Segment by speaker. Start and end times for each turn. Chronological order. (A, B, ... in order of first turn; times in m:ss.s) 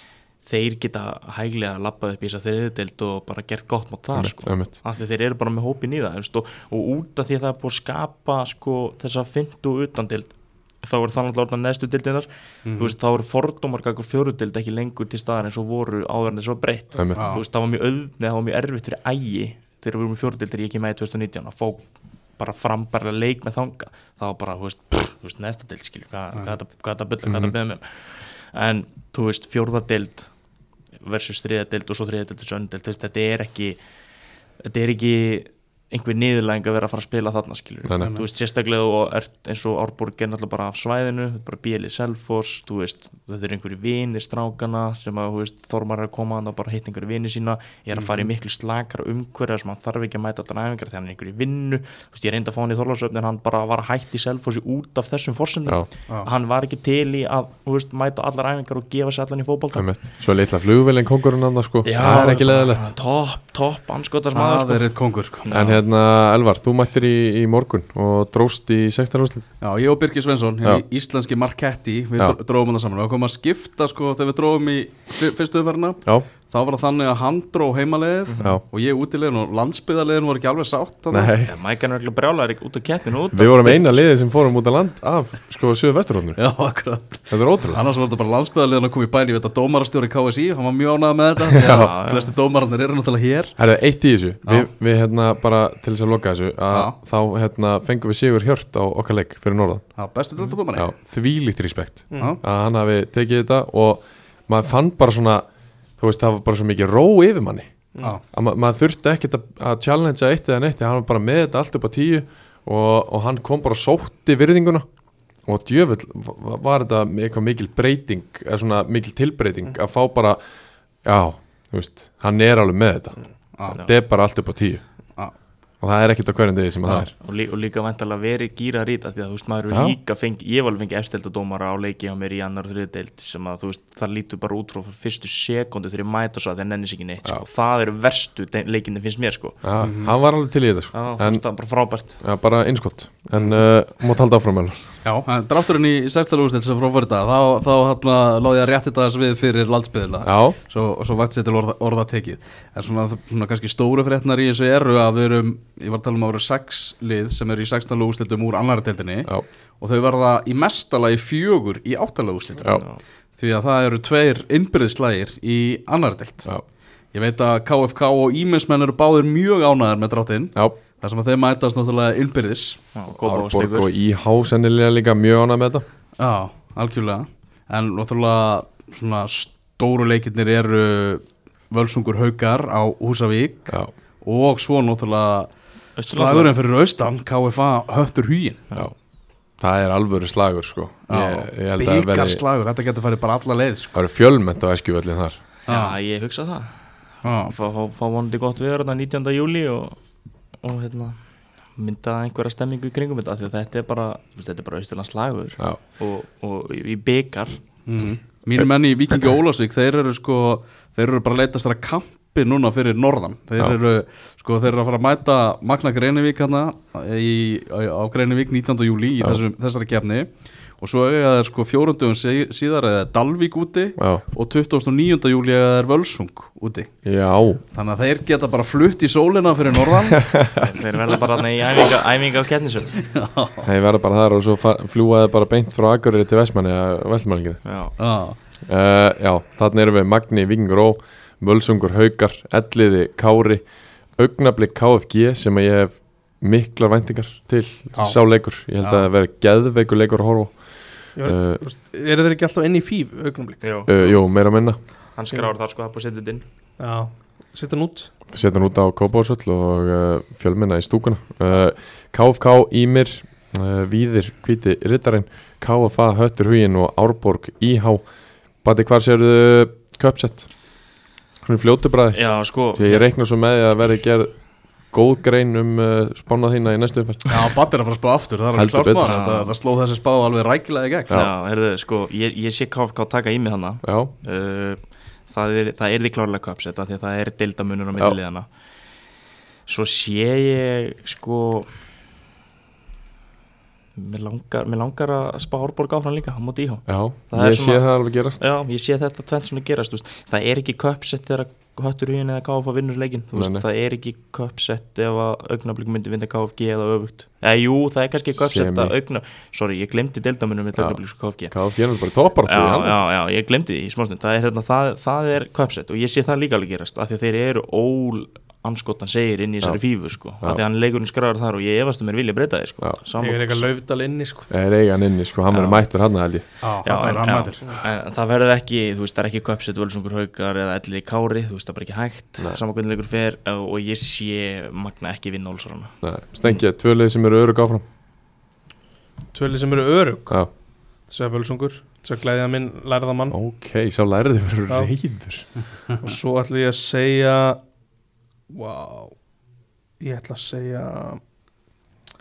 0:00.4-0:21.9 A
0:04.1-0:04.8 B
0:12.6-0:13.0 C
0:16.9-0:17.4 B
0:17.2-0:17.4 C
0:22.4-0:30.3 A
0:27.3-0:27.5 B
0:31.0-0:33.8 A
0:34.6-0:59.9 A
0:37.8-0:38.1 B
0:48.0-0:48.3 C
0:59.7-1:02.9 B
1:01.8-1:04.9 A
1:02.0-1:02.4 C
1:04.3-1:05.5 C
1:05.4-1:05.8 A
1:05.5-1:09.5 B
1:09.6-1:21.3 C
1:21.1-1:21.5 B
1:21.4-1:24.0 A
1:23.3-1:26.4 B
1:26.4-1:33.6 C
1:27.3-1:27.8 B
1:31.6-1:31.9 B
1:31.6-1:32.3 A
1:33.6-1:39.9 B
1:40.0-1:40.9 C
1:40.8-1:45.5 B
1:42.1-1:42.4 D
1:46.0-1:47.7 B
1:48.3-1:54.8 B
1:55.5-2:00.4 B
2:01.0-2:04.8 B
2:05.8-2:07.1 B
2:07.1-2:19.6 A
2:09.7-2:10.0 B
2:19.6-2:21.4 B
2:19.8-2:20.1 C
2:20.9-2:22.2 A
2:22.2-2:24.8 B
2:25.0-2:42.8 C
2:30.2-2:30.6 B
2:42.7-2:43.0 A
2:43.4-2:46.5 C
2:47.1-2:52.8 C
2:53.0-2:53.9 A
2:53.1-2:55.8 B
2:56.2-3:08.7 C
3:06.0-3:06.6 A
3:09.6-3:12.4 B
3:11.1-3:14.0 C
3:13.9-3:15.4 B
3:15.7-3:16.0 C
3:15.7-3:20.0 A
3:17.2-3:17.5 C
3:20.6-3:21.2 A
3:21.8-3:27.6 A
3:27.9-3:47.0 C
3:44.0-3:44.2 B
3:47.0-3:47.6 B
3:47.7-3:50.3 C
3:50.2-3:50.6 B
3:50.6-3:53.0 A
3:53.0-3:53.7 C
3:53.6-3:57.6 B
3:57.6-3:58.0 A
3:58.0-3:58.4 C
3:58.7-4:03.6 B
4:04.2-4:11.6 B
4:07.9-4:08.2 C
4:08.8-4:09.1 C
4:11.2-4:13.6 D
4:13.6-4:14.2 A
4:13.9-4:14.8 B
4:15.2-4:16.4 A
4:16.8-4:18.1 D
4:18.3-4:28.0 B
4:28.6-4:30.5 B
4:31.4-4:32.2 B
4:32.1-4:33.1 A
4:32.7-4:34.3 B
4:34.9-4:37.3 B
4:37.3-4:41.1 C
4:38.6-4:39.2 B
4:39.0-4:39.5 A
4:41.1-4:48.5 A
4:43.8-4:44.1 B
4:49.7-4:51.7 A
4:54.0-5:11.5 A
4:56.9-4:58.4 B
5:03.3-5:03.7 B
5:08.4-5:08.9 B
5:10.8-5:13.1 B
5:12.4-5:23.6 A
5:19.6-5:20.6 B
5:23.2-5:24.5 D
5:24.5-5:26.4 B
5:25.5-5:25.8 A
5:26.6-5:27.6 C
5:26.8-5:36.6 A
5:36.0-5:37.8 B
5:39.3-5:40.5 D
5:41.1-5:43.4 D
5:43.3-5:45.5 B
5:46.0-5:47.6 D
5:48.5-5:49.2 D
5:50.0-5:51.2 D